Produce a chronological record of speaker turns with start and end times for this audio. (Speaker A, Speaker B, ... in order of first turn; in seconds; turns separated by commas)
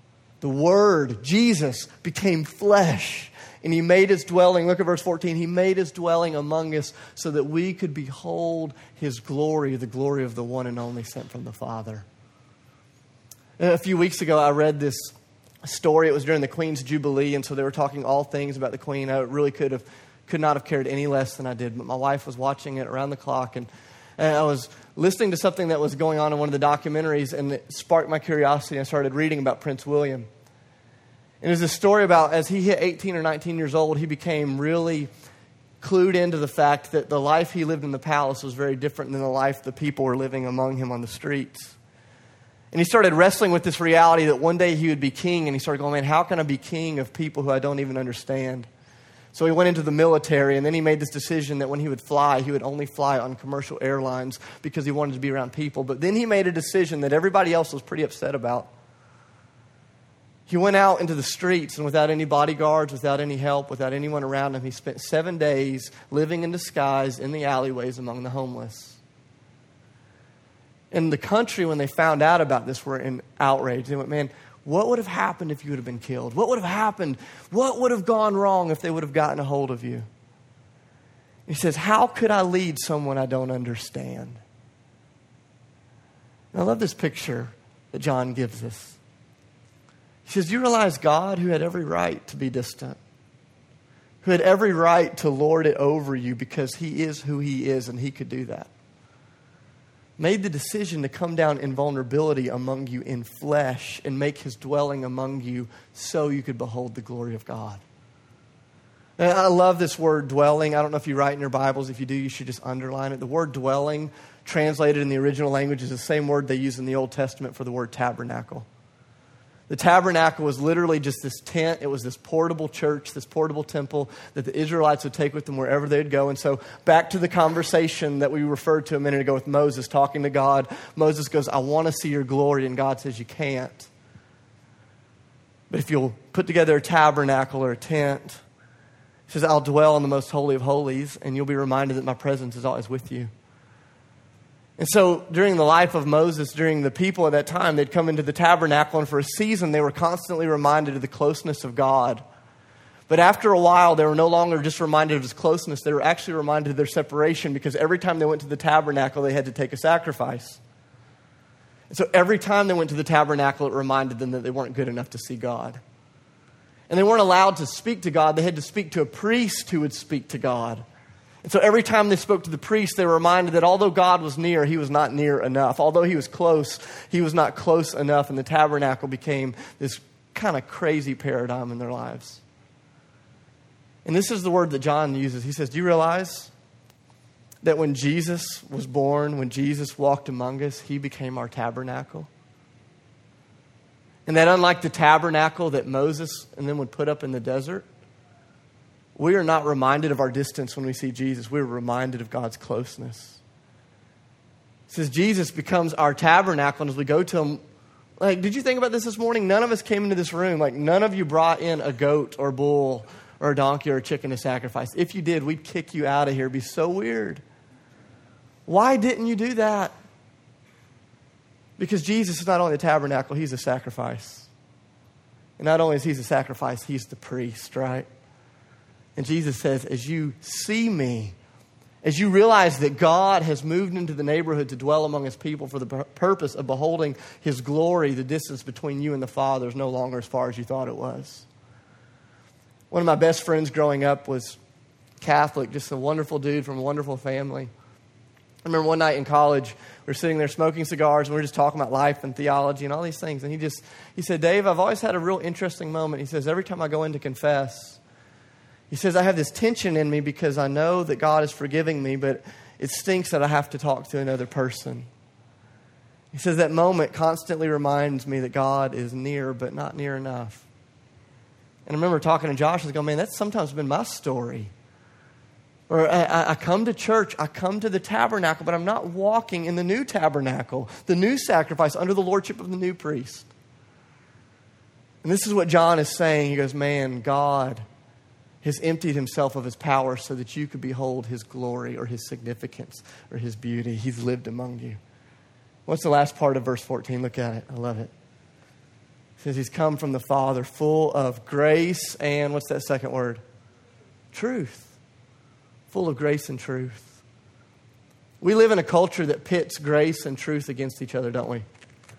Speaker A: 0.4-12.1, Speaker A: 13.6-30.3, Speaker A: 31.4-35.1, Speaker A: 35.8-41.8, Speaker A: 42.7-48.7, Speaker A: 49.3-58.7, Speaker A: 60.5-69.0, Speaker A: 70.9-80.1, Speaker A: 81.5-84.4, Speaker A: 86.5-89.0, Speaker A: 90.2-93.0, Speaker A: 94.2-98.7, Speaker A: 100.2-107.8, Speaker A: 109.2-118.7, Speaker A: 119.7-133.9, Speaker A: 135.7-138.4, Speaker A: 139.3-143.3, Speaker A: 144.8-152.2, Speaker A: 153.1-160.6, Speaker A: 161.9-165.8, Speaker A: 166.9-170.8, Speaker A: 171.4-182.4, Speaker A: 184.0-186.5, Speaker A: 187.6-192.3, Speaker A: 194.2-197.8, Speaker A: 199.2-203.4, Speaker A: 204.9-207.6, Speaker A: 208.2-217.4, Speaker A: 218.7-219.9, Speaker A: 221.8-224.5, Speaker A: 225.6-228.1, Speaker A: 229.2-231.3, Speaker A: 232.0-241.5, Speaker A: 242.9-244.6, Speaker A: 245.2-247.7, Speaker A: 248.7-258.0, Speaker A: 258.9-265.1, Speaker A: 266.3-270.7, Speaker A: 271.9-274.7, Speaker A: 275.9-283.5, Speaker A: 285.2-287.8, Speaker A: 288.6-295.0, Speaker A: 295.9-298.1, Speaker A: 299.4-303.4, Speaker A: 304.3-305.0, Speaker A: 305.9-307.2, Speaker A: 308.4-311.6